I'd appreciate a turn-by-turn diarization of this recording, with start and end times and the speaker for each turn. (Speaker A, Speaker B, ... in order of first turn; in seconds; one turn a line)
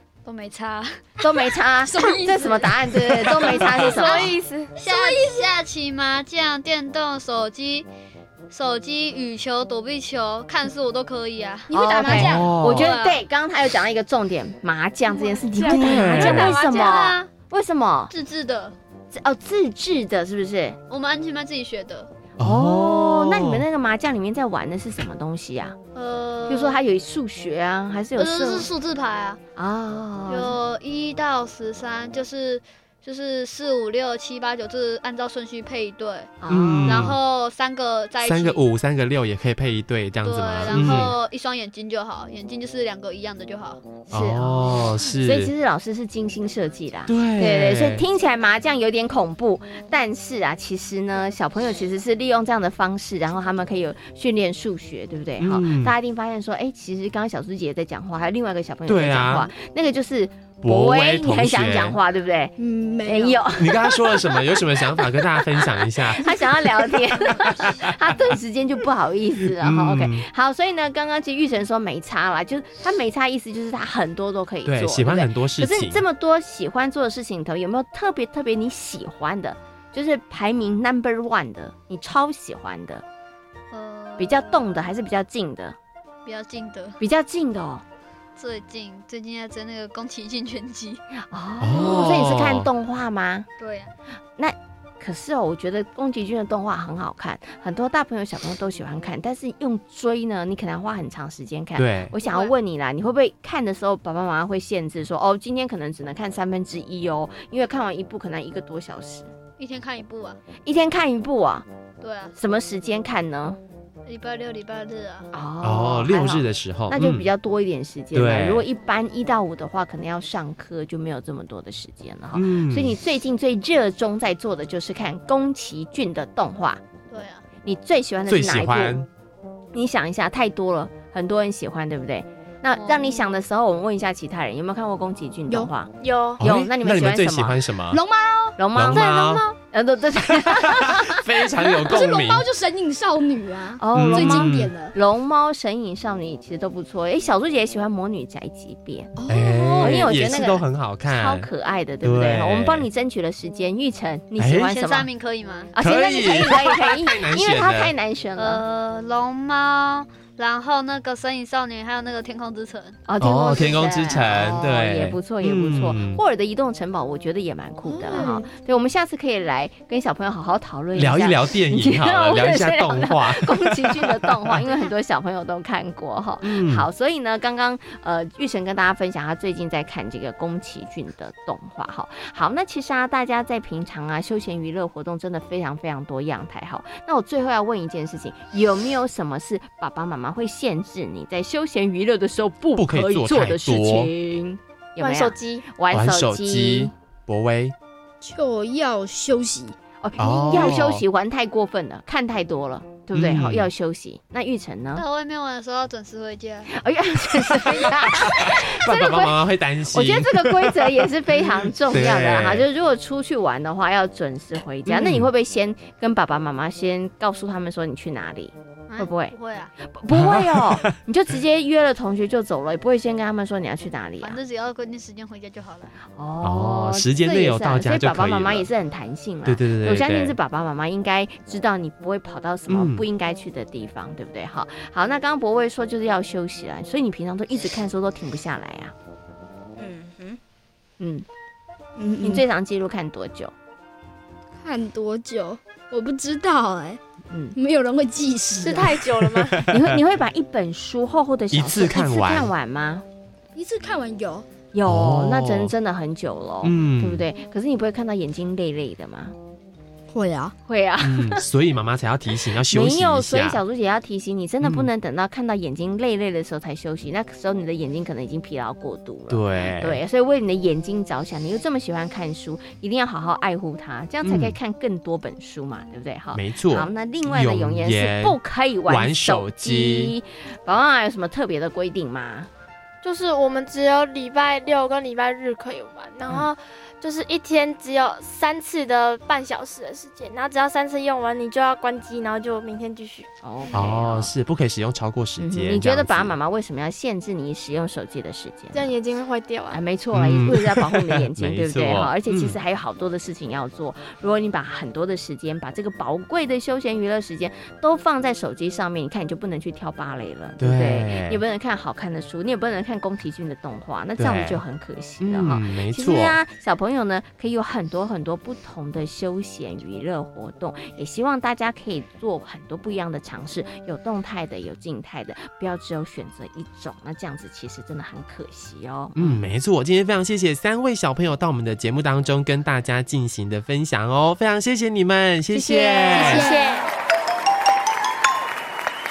Speaker A: 0.2-1.0
Speaker B: 1.2-4.4
Speaker C: 1.9-3.4
Speaker D: 3.4-4.8
Speaker A: 3.9-7.9
Speaker C: 4.9-5.3
Speaker A: 8.5-13.2
Speaker C: 11.7-12.5
Speaker B: 11.8-18.1
Speaker E: 12.1-12.9
Speaker C: 15.4-15.8
Speaker A: 15.5-17.3
Speaker E: 15.6-16.6
Speaker A: 18.1-18.8
Speaker B: 19.1-20.8
Speaker A: 20.9-22.1
Speaker E: 22.4-23.7
Speaker B: 22.4-25.8
Speaker A: 25.9-26.8
Speaker B: 26.5-28.7
Speaker A: 28.2-29.4
Speaker B: 29.6-30.6
Speaker A: 30.3-36.3
Speaker B: 36.4-37.1
Speaker E: 36.5-37.2
Speaker A: 36.9-38.6
Speaker E: 38.2-41.1
Speaker A: 40.2-43.8
Speaker B: 40.7-41.1
Speaker B: 44.1-83.0
Speaker E: 44.1-45.5
Speaker E: 47.1-48.0
Speaker E: 55.4-56.0
Speaker E: 58.9-59.5
Speaker E: 60.6-62.0
Speaker C: 62.6-63.5
Speaker E: 63.6-66.9
Speaker E: 69.5-70.2
Speaker E: 74.7-76.0
Speaker A: 83.7-84.6
Speaker B: 84.2-85.8
Speaker A: 86.3-87.0
Speaker B: 87.0-87.8
Speaker A: 88.4-91.0
Speaker B: 91.3-93.5
Speaker E: 91.6-92.7
Speaker A: 93.6-93.9
Speaker B: 94.4-109.3
Speaker E: 101.8-102.2
Speaker A: 102.2-102.5
Speaker A: 109.6-110.4
Speaker B: 110.7-111.7
Speaker A: 112.0-112.4
Speaker B: 112.4-113.6
Speaker A: 114.1-115.3
Speaker B: 115.3-126.8
Speaker E: 115.6-117.3
Speaker E: 118.1-118.7
Speaker E: 122.3-123.0
Speaker A: 127.1-127.4
Speaker B: 127.7-129.0
Speaker E: 128.3-129.1
Speaker B: 129.7-137.6
Speaker A: 132.8-133.2
Speaker D: 136.0-136.4
Speaker E: 136.4-138.0
Speaker C: 137.9-138.6
Speaker B: 138.6-141.2
Speaker E: 138.7-139.5
Speaker E: 140.5-142.5
Speaker C: 141.6-144.9
Speaker B: 143.8-149.2
Speaker E: 143.9-144.7
Speaker C: 149.2-150.5
Speaker E: 149.3-151.5
Speaker B: 149.8-155.1
Speaker E: 152.0-152.9
Speaker E: 154.4-154.7
Speaker A: 154.6-155.7
Speaker B: 155.7-158.6
Speaker E: 155.8-157.9
Speaker A: 158.4-163.0
Speaker B: 163.1-196.9
Speaker E: 163.2-166.2
Speaker C: 167.8-168.5
Speaker E: 171.0-174.6
Speaker E: 176.4-176.9
Speaker E: 192.8-194.1
Speaker D: 195.0-195.7
Speaker E: 195.9-197.8
Speaker C: 198.2-199.8
Speaker B: 200.0-205.0
Speaker E: 200.2-201.0
Speaker E: 203.1-203.7
Speaker A: 204.9-206.7
Speaker B: 206.7-224.4
Speaker E: 208.0-212.7
Speaker E: 214.9-215.3
Speaker A: 218.9-219.7
Speaker E: 220.1-221.0
Speaker A: 224.2-225.9
Speaker B: 226.2-238.9
Speaker E: 226.4-228.7
Speaker E: 229.4-230.4
Speaker E: 232.7-233.1
Speaker C: 239.8-240.4
Speaker B: 241.0-241.3
Speaker C: 242.0-242.4
Speaker B: 242.2-243.5
Speaker C: 244.6-247.0
Speaker B: 247.3-247.6
Speaker C: 247.6-249.0
Speaker D: 248.6-249.6
Speaker E: 249.1-250.0
Speaker B: 249.6-253.1
Speaker E: 251.5-252.5
Speaker C: 253.6-254.5
Speaker B: 254.7-259.4
Speaker E: 254.8-255.7
Speaker E: 256.6-257.3
Speaker C: 260.1-260.5
Speaker B: 260.7-261.4
Speaker E: 261.0-263.6
Speaker B: 262.6-282.5
Speaker E: 264.6-264.9
Speaker E: 269.3-270.0
Speaker E: 274.2-274.6
Speaker E: 276.3-280.1
Speaker D: 283.0-293.3
Speaker B: 293.4-294.3
Speaker E: 293.7-296.4
Speaker B: 295.4-298.9
Speaker D: 298.7-299.8
Speaker B: 299.7-329.4
Speaker E: 300.1-302.6
Speaker E: 310.6-311.4
Speaker E: 314.2-314.6
Speaker E: 315.2-316.4
Speaker E: 329.2-336.5
Speaker C: 335.5-336.6
Speaker D: 335.9-336.9